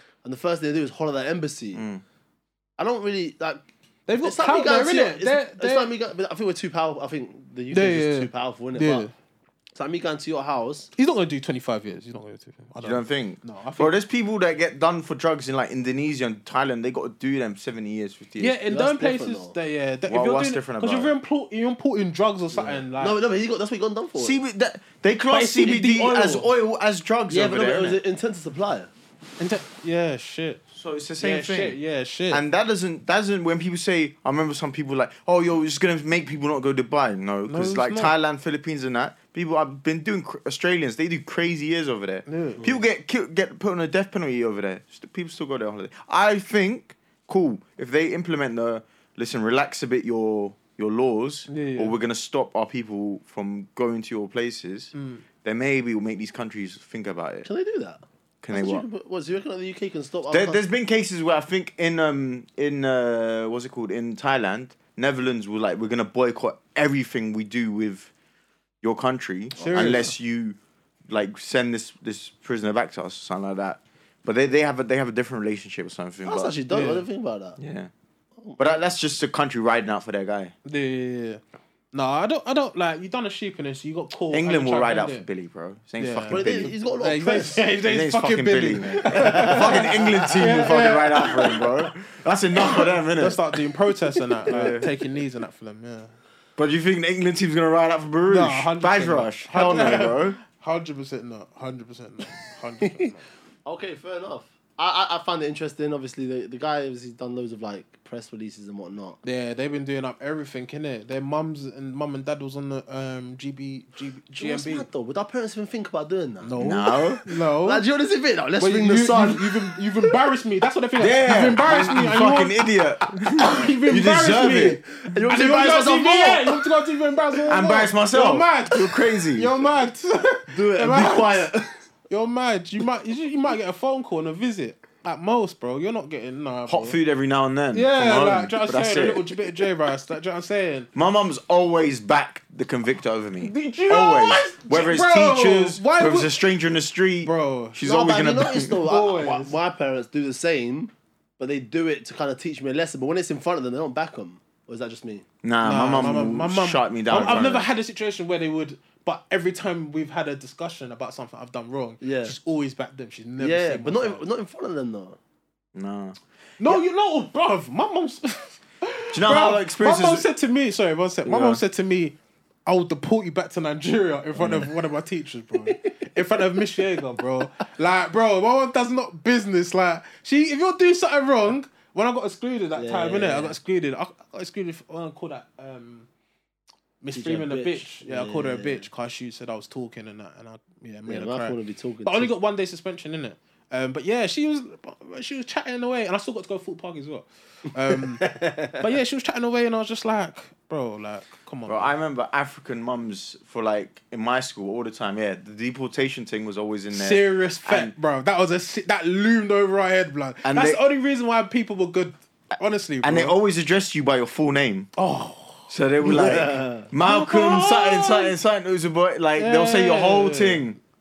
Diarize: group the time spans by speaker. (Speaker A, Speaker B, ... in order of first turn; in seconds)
Speaker A: 0.2-1.8, 2.8-3.6, 4.2-9.1, 9.7-10.9, 18.7-19.5, 22.5-24.4, 27.3-28.9, 57.4-60.6, 69.7-69.9, 76.2-77.6, 78.4-78.8, 86.3-87.7, 89.2-90.4, 94.5-94.8, 99.6-100.0, 103.6-109.2, 114.3-116.5, 117.6-120.0, 125.0-126.7, 130.5-131.8, 147.8-155.2, 157.2-157.4, 162.0-162.3, 163.4-165.2, 182.7-183.6, 187.1-188.8, 191.1-192.3, 198.2-198.8, 216.0-216.9
Speaker B: 1.7-2.0, 12.8-18.6, 20.1-21.1, 24.1-28.0, 30.7-31.8, 32.3-57.5, 58.4-58.9, 60.3-68.1, 68.8-70.6, 71.1-76.5, 77.6-77.9, 78.6-80.5, 84.3-86.7, 87.8-93.4, 94.5-94.8, 96.6-100.4, 116.6-117.2, 121.0-124.8, 127.5-129.5, 136.7-139.4, 140.9-148.8, 155.4-157.7, 165.7-166.2, 169.1-170.3, 171.3-171.6, 201.7-207.9, 210.4-210.8, 213.0-214.9, 215.7-220.8
Speaker C: 4.1-5.9, 7.7-9.1, 10.9-13.9, 18.4-23.2, 25.3-26.5, 29.4-30.6, 31.2-32.4, 37.5-38.1, 42.3-42.6, 51.5-52.0, 54.9-55.2, 69.6-70.1, 76.7-77.0, 80.6-81.4, 81.9-85.2, 86.0-91.7, 93.2-96.1, 98.3-103.2, 109.2-114.9, 116.4-117.8, 118.6-122.5, 123.4-131.5, 132.1-137.0, 137.7-140.9, 143.4-146.3, 147.2-147.8, 148.8-149.5, 155.6-164.2, 166.6-186.1, 187.0-201.9, 206.9-213.3, 214.9-215.7, 217.0-218.3, 219.3-220.7